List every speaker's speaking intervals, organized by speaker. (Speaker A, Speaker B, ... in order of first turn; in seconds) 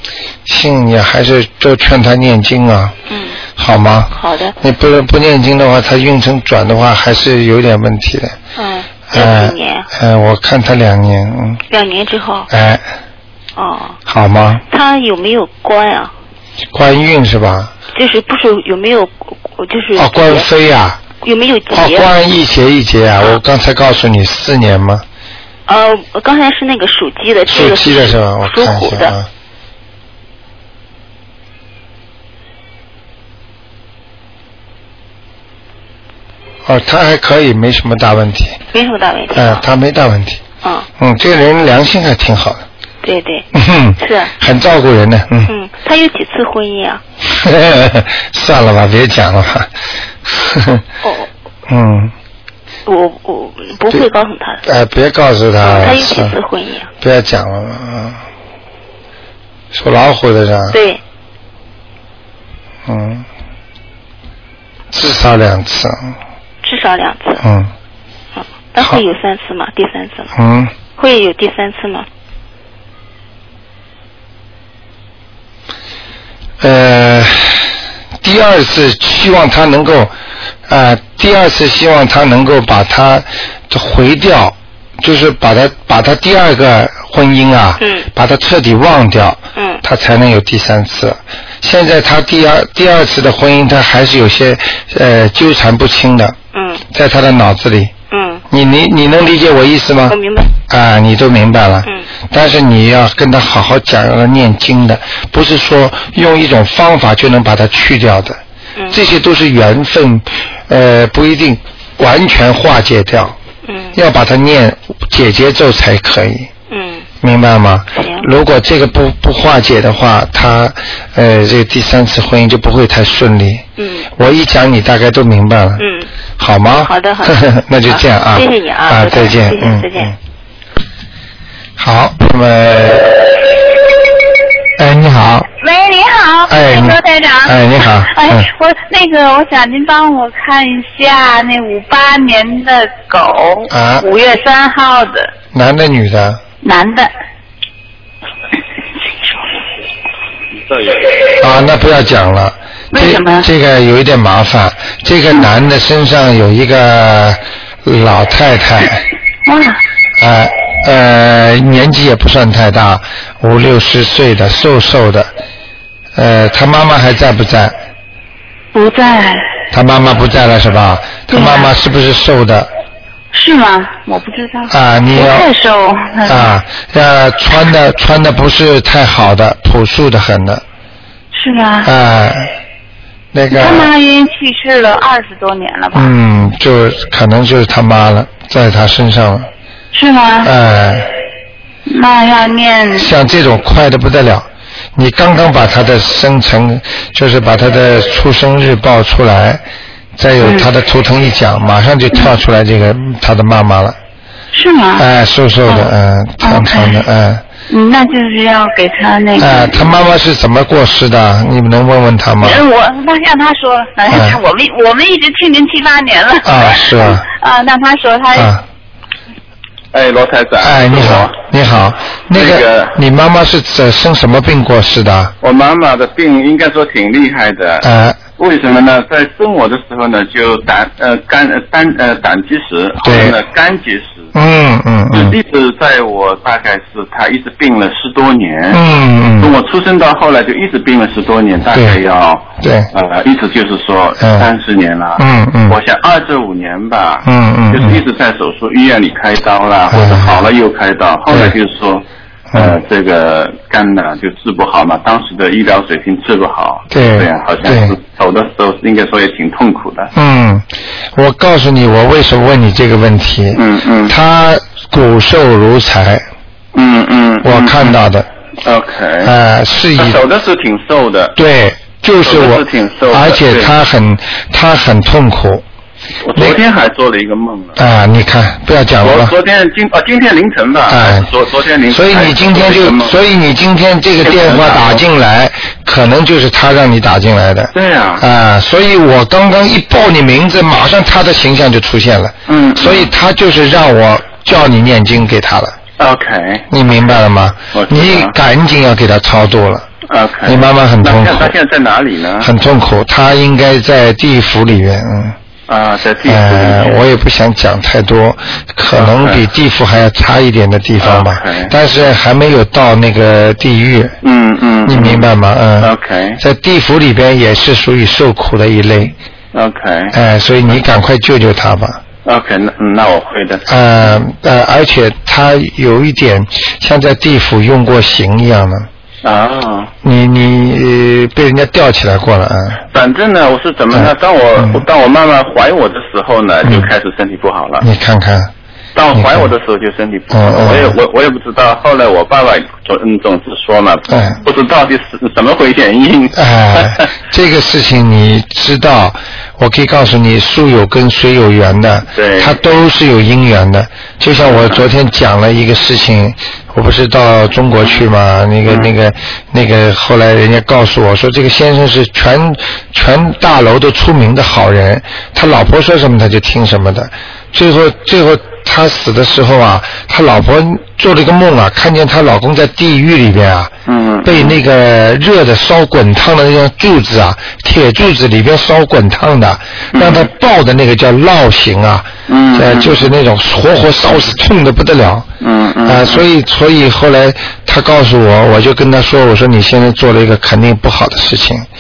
Speaker A: 0.5-3.0, 3.6-8.4, 9.1-11.6, 12.5-12.9, 14.1-14.6, 16.7-17.7, 20.0-21.0, 21.7-25.1, 27.5-29.3, 36.6-38.6, 39.3-40.4, 41.0-42.7, 43.5-45.5, 47.2-49.7, 50.2-50.8, 51.7-52.1, 54.6-56.4, 57.0-58.2, 59.7-60.8, 62.9-63.3, 64.9-66.2, 67.4-67.7, 70.3-70.7, 76.6-80.1, 80.7-96.4, 96.9-97.9, 98.5-113.4, 114.0-116.5, 117.2-125.8, 126.4-130.2, 131.8-133.4, 134.8-135.5, 136.5-138.5, 143.7-144.1, 145.5-146.4, 151.4-159.0, 160.2-165.3, 166.2-167.7, 169.7-172.7, 174.7-175.5, 176.3-180.6, 181.8-182.6, 183.3-183.9, 185.9-189.5, 190.4-191.1, 192.9-199.6, 200.2-204.0, 205.0-207.4, 209.4-212.6, 214.1-214.4, 216.4-217.3, 218.3-218.6, 220.6-225.3, 227.8-228.2, 233.0-233.4, 234.3-235.4, 238.7-239.6, 241.7-242.0, 242.6-242.9, 244.2-244.5, 245.2-245.8, 247.2-248.0, 249.9-250.5, 251.3-251.6, 256.9-257.9, 260.1-266.2, 267.4-268.3, 269.2-270.2, 271.4-275.6, 277.8-279.3, 280.9-281.3, 281.9-295.8, 296.7-299.9, 300.4-301.5, 302.4-305.4, 306.2-314.2, 314.9-319.1, 320.1-322.0, 323.7-328.9, 330.0-332.8, 333.9-334.8, 336.6-336.9, 337.8-338.5, 339.1-339.5, 340.3-341.0, 344.1-344.4, 346.4-373.7, 374.2-385.3, 385.9-391.7
Speaker B: 3.1-3.4, 4.2-4.5, 8.6-9.9, 11.7-12.5, 13.6-14.0, 14.7-16.1, 17.9-20.5, 21.2-22.1, 25.7-29.1, 38.7-39.6, 43.0-43.5, 44.0-44.3, 45.5-47.0, 51.0-51.3, 52.9-54.6, 55.6-56.9, 60.7-61.0, 66.6-67.5, 68.4-70.3, 71.0-72.1, 87.8-88.1, 89.6-89.8, 96.5-96.8, 98.1-98.4, 100.1-100.5, 113.7-114.0, 116.7-117.1, 118.0-118.3, 123.8-124.1, 125.8-126.1, 126.8-130.1
Speaker C: 135.6-145.3, 146.6-147.1, 149.0-149.6, 152.9-153.5, 159.5-159.8, 168.7-169.6, 171.3-171.7, 173.3-176.5, 181.3-181.9, 183.5-186.1, 189.9-190.5, 191.9-193.1, 200.4-200.7, 204.5-205.1, 205.7-207.1, 207.7-209.9, 212.4-218.5
Speaker D: 219.9-221.4, 222.3-223.0, 225.4-234.3, 235.1-238.8, 239.4-260.1, 263.6-264.1, 266.7-268.0, 268.6-269.3, 270.0-271.4, 272.2-273.7, 276.2-277.8, 279.0-283.1, 284.2-285.0, 287.7-288.2, 292.5-293.1, 296.0-296.7, 297.7-298.3, 300.1-302.5, 305.7-307.1, 308.9-309.4, 311.0-311.7, 314.2-315.3, 315.8-316.4, 319.5-320.2, 322.2-323.7, 329.2-329.9, 332.9-337.9, 338.9-347.1, 352.1-352.6, 354.5-354.8, 373.9-374.6, 379.9-380.3, 382.3-383.1, 385.4-386.2